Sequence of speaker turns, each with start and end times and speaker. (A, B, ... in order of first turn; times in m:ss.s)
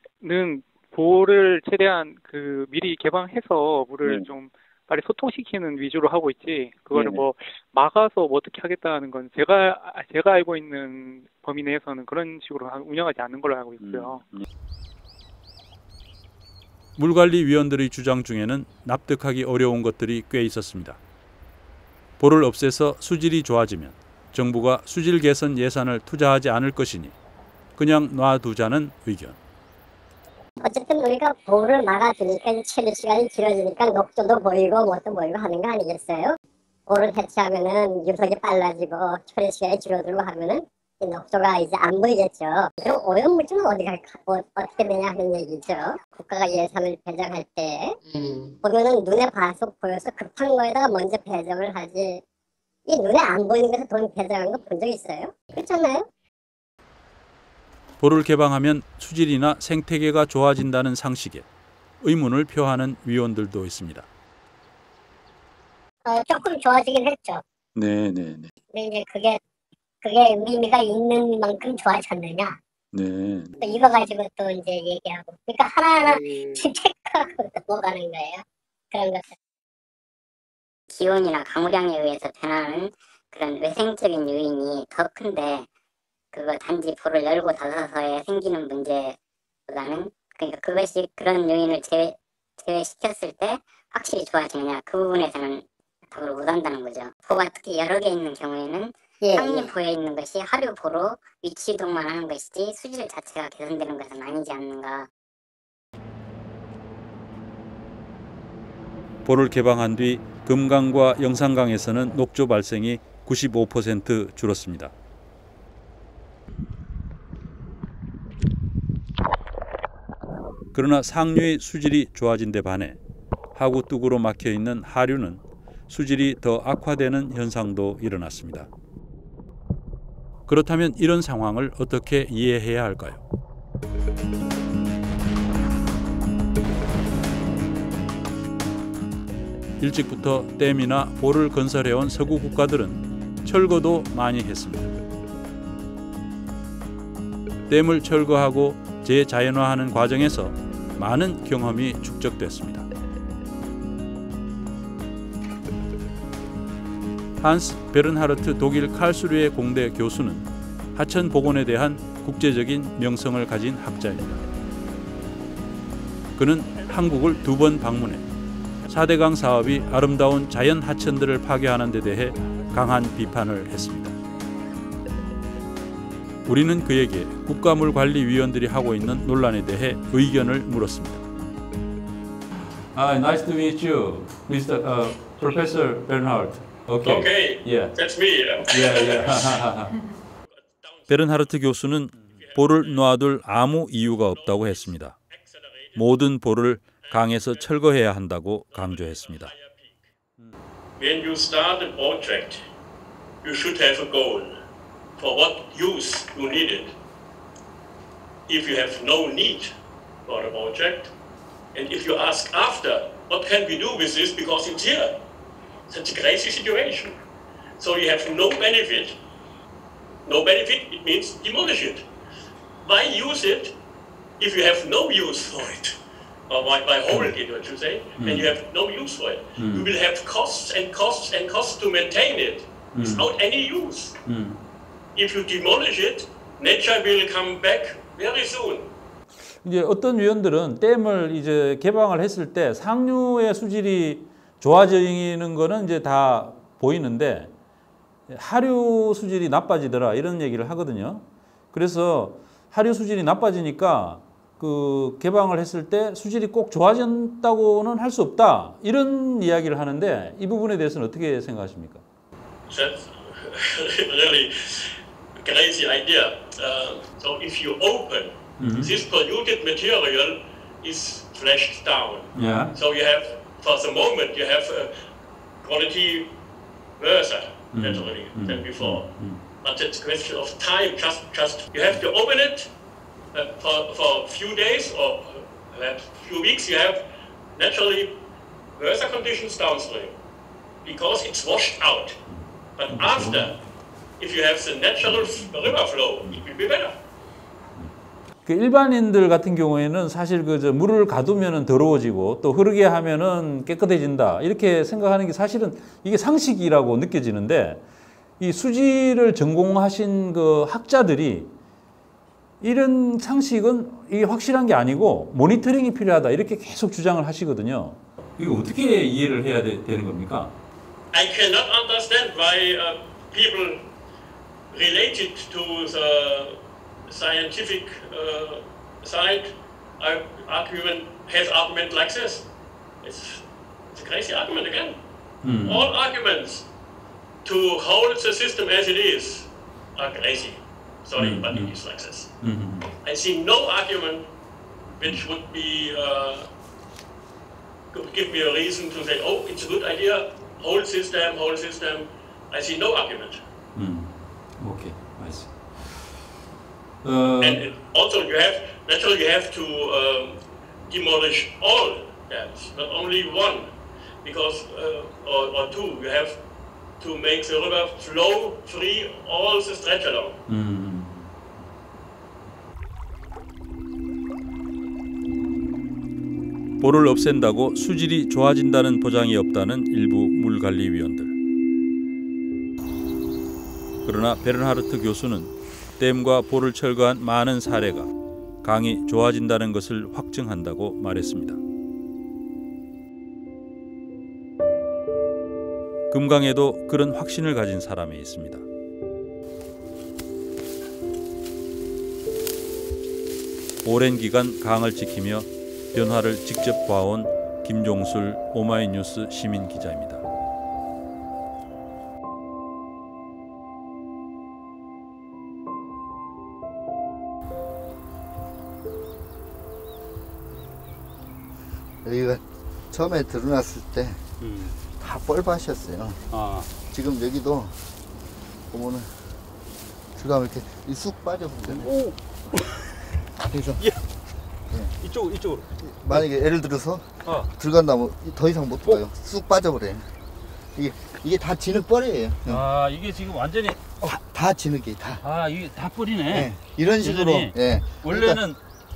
0:00.2-0:14.2 A
0:04.0-0:04.3 B
0:06.9-0:07.2 B
0:13.8-0:14.4 B
0:17.0-0:21.0 B
0:22.2-0:27.1 B
0:27.8-0:29.4 B
0:30.6-0:36.4 C
0:36.9-0:48.0 C
0:48.6-0:52.2 C
0:52.9-0:56.0 C
0:58.0-1:01.4 B
1:02.0-1:04.1 B
1:06.0-1:07.4 C
1:07.7-1:08.5 B
1:08.7-1:09.4 C
1:10.0-1:12.6 C
1:12.9-1:13.5 B
1:13.6-1:19.3 C
1:20.9-1:25.6 D
1:26.3-1:29.2 D
1:29.7-1:45.0 D
1:39.2-1:39.7 C
1:49.2-1:54.9 B
2:00.7-2:03.0 B
2:03.5-2:08.7 B
2:10.5-2:13.2 B
2:19.8-2:24.9 B
2:27.7-2:32.8 B
2:37.4-2:44.4 B
2:46.4-2:48.3 B
2:48.9-2:54.1 B
2:56.4-3:01.2 B
3:02.9-3:08.0 B
3:07.0-3:09.3 E
3:08.7-3:09.9 B
3:10.7-3:11.4 E
3:11.1-3:15.2 B
3:12.3-3:13.0 E
3:14.2-3:16.0 E
3:15.9-3:19.5 B
3:17.0-3:17.7 E
3:18.7-3:20.0 E
3:21.0-3:22.6 E
3:23.4-3:24.6 E
3:25.2-3:26.9 E
3:28.5-3:29.7 E
3:30.3-3:31.1 E
3:31.7-3:35.1 E
3:35.9-3:37.2 E
3:37.8-3:39.2 E
3:40.2-3:42.0 E
3:42.8-3:43.7 E
3:44.4-3:45.9 E
3:46.5-3:54.1 E
3:47.1-3:47.4 B
3:48.2-3:48.5 B
3:49.6-3:49.9 B
3:52.9-3:53.3 B
3:54.2-3:54.6 B
3:55.2-3:58.9 E
3:59.6-4:07.5 B
4:08.3-4:22.0 B
4:22.7-4:34.9 E
4:28.6-4:29.0 B
4:32.3-4:32.8 B
4:35.6-4:36.3 E
4:37.0-4:39.0 E
4:37.7-4:39.4 B
4:39.6-4:42.7 E
4:43.3-4:47.0 E
4:47.5-4:48.2 E
4:48.7-4:50.1 E
4:50.8-4:52.2 E
4:52.3-4:53.6 B
4:52.8-4:53.6 E
4:54.2-4:56.9 E
4:55.0-4:56.4 B
4:58.4-5:07.8 B
5:08.4-5:11.5 B
5:12.6-5:20.5 B
5:21.1-5:23.9 E
5:24.7-5:32.4 E
5:33.0-5:35.0 E
5:35.4-5:35.9 B
5:35.6-5:36.6 E
5:37.4-5:42.3 E
5:41.2-5:41.8 B
5:42.4-5:42.9 B
5:43.0-5:44.3 E
5:45.0-5:46.5 E
5:47.9-5:53.4 E
5:53.7-5:56.2 B
5:57.0-5:57.6 B
5:57.4-6:03.7 E
6:04.2-6:06.4 E
6:07.0-6:10.3 E
6:10.5-6:11.3 B
6:16.8-6:21.3 B
6:24.0-6:28.1 B
6:28.6-6:31.6 B
6:36.1-6:38.6 B
6:43.8-6:50.2 B
7:02.0-7:04.2 F
7:04.4-7:04.8 B
7:05.0-7:06.2 F
7:06.3-7:06.7 B
7:06.9-7:07.7 F
7:08.7-7:09.1 F
7:10.2-7:11.9 F
7:11.7-7:13.0 B
7:13.4-7:13.8 F
7:15.0-7:16.2 B
7:15.8-7:20.1 F
7:17.2-7:17.5 B
7:20.8-7:22.6 F
7:22.5-7:24.1 B
7:24.0-7:25.2 F
7:25.2-7:28.6 B
7:26.3-7:28.4 F